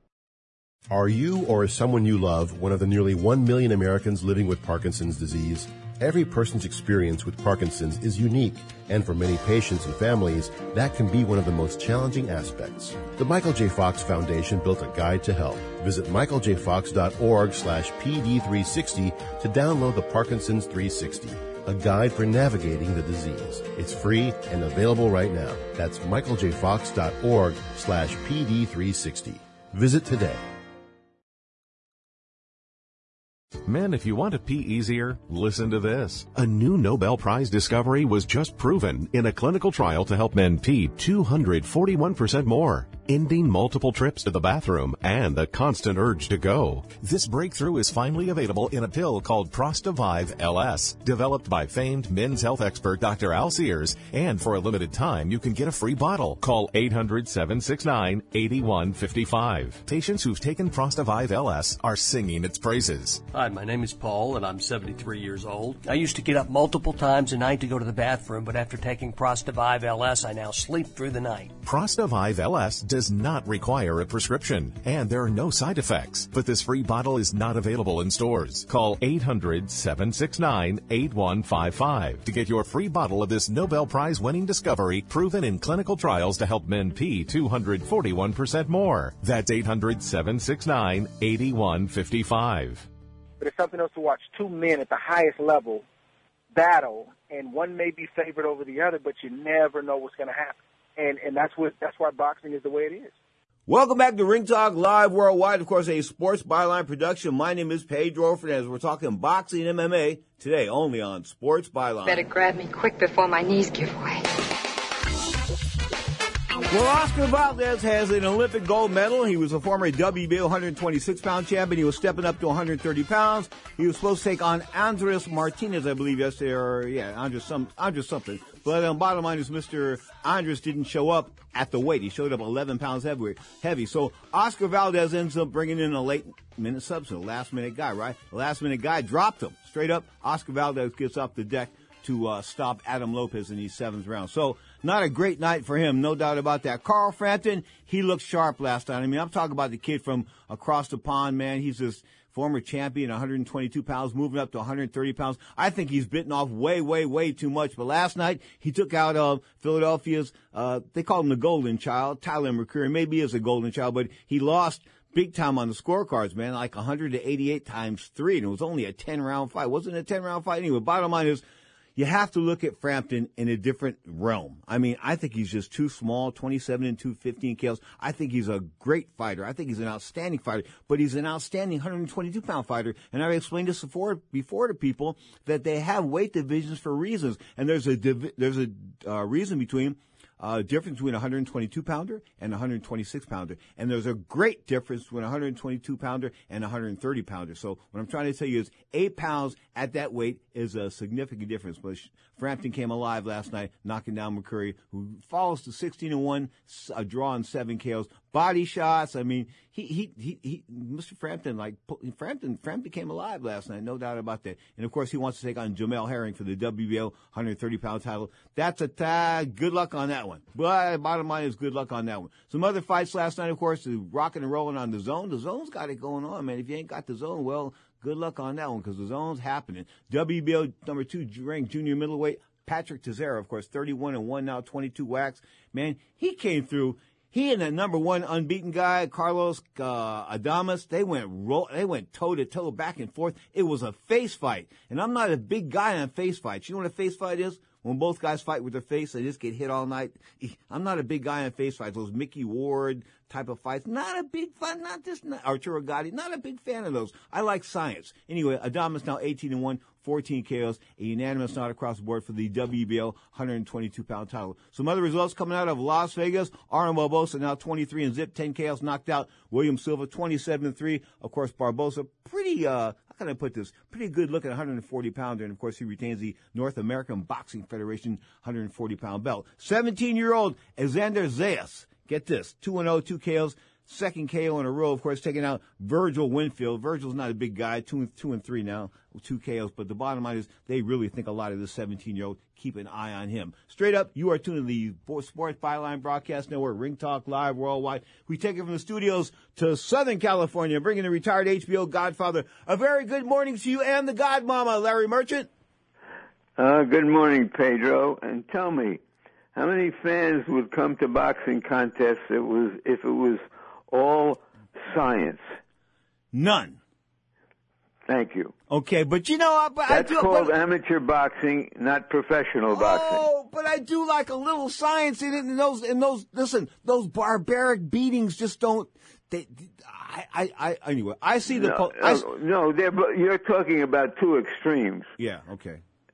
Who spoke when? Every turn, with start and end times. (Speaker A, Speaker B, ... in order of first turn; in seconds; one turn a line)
Speaker A: 0.9-30.4
Speaker B: 33.6-63.2
Speaker C: 63.3-71.6
Speaker B: 71.6-92.9
Speaker D: 93.4-95.8
Speaker D: 96.5-103.1
Speaker E: 103.7-112.2
Speaker F: 112.0-114.2
Speaker E: 116.7-171.4
Speaker E: 171.9-305.5
Speaker G: 306.6-309.0
Speaker G: 309.5-315.4
Speaker E: 316.3-316.8
Speaker G: 318.1-318.5
Speaker E: 318.7-320.5
Speaker G: 319.9-323.2
Speaker E: 322.7-332.2
Speaker G: 331.5-335.1
Speaker E: 335.2-335.8